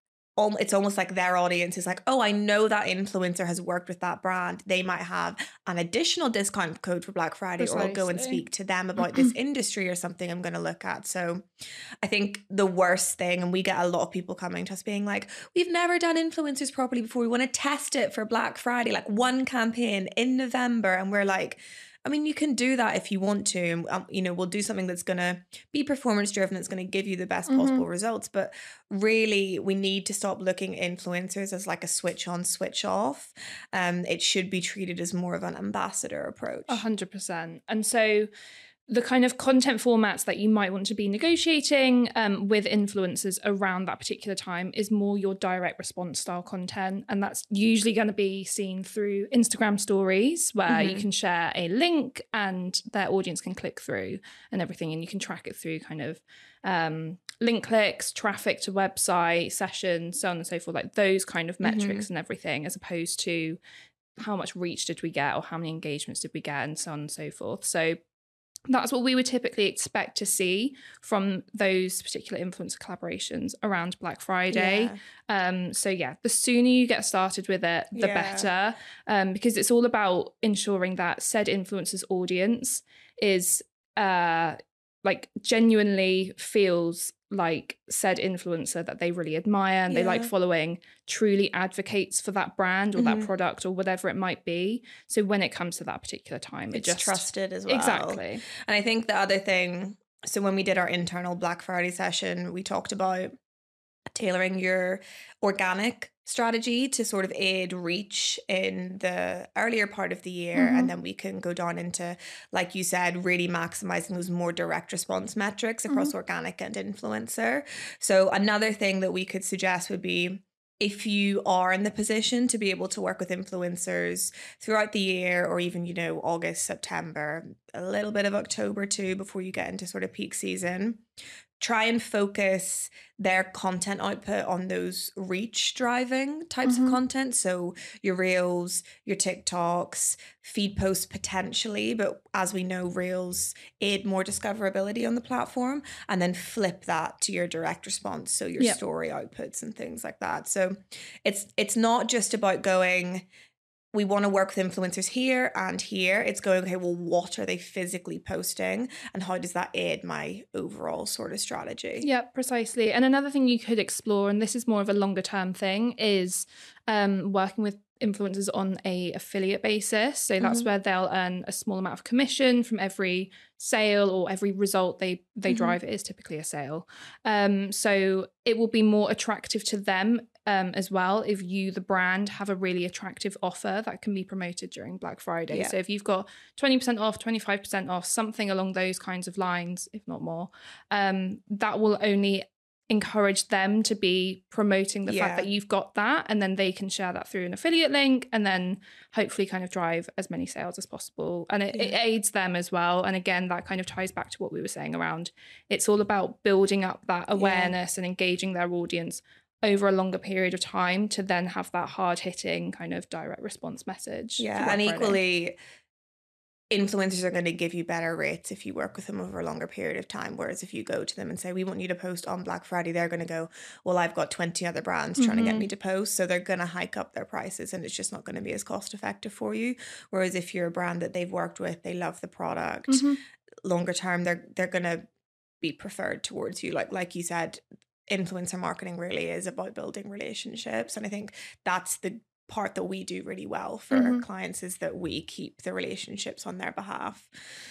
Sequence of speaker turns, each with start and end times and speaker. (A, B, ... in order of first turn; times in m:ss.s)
0:00.4-0:11.4 A
0:07.6-0:08.4 B
0:12.0-0:36.8 A
0:27.5-0:27.8 B
0:36.7-0:38.3 B
0:38.9-1:03.6 B
0:50.7-0:51.0 A
1:01.6-1:02.0 A
1:04.2-1:08.0 B
1:08.7-1:38.4 B
1:14.5-1:15.0 A
1:17.9-1:18.5 A
1:29.9-1:30.3 A
1:33.0-1:33.3 A
1:36.7-1:43.3 A
1:44.1-2:11.0 A
1:50.5-1:50.9 B
1:55.9-1:56.1 B
2:11.6-2:33.2 A
2:16.6-2:17.0 B
2:33.9-2:42.1 A
2:42.0-3:35.2 B
2:50.4-2:50.7 A
2:55.5-2:55.8 A
3:05.5-3:05.8 A
3:15.1-3:15.5 A
3:27.4-3:27.7 A
3:34.4-3:35.6 A
3:36.7-3:53.1 A
3:45.2-3:45.7 B
3:52.9-3:53.2 B
3:53.6-3:55.0 A
3:55.6-4:07.3 A
4:03.9-4:04.2 B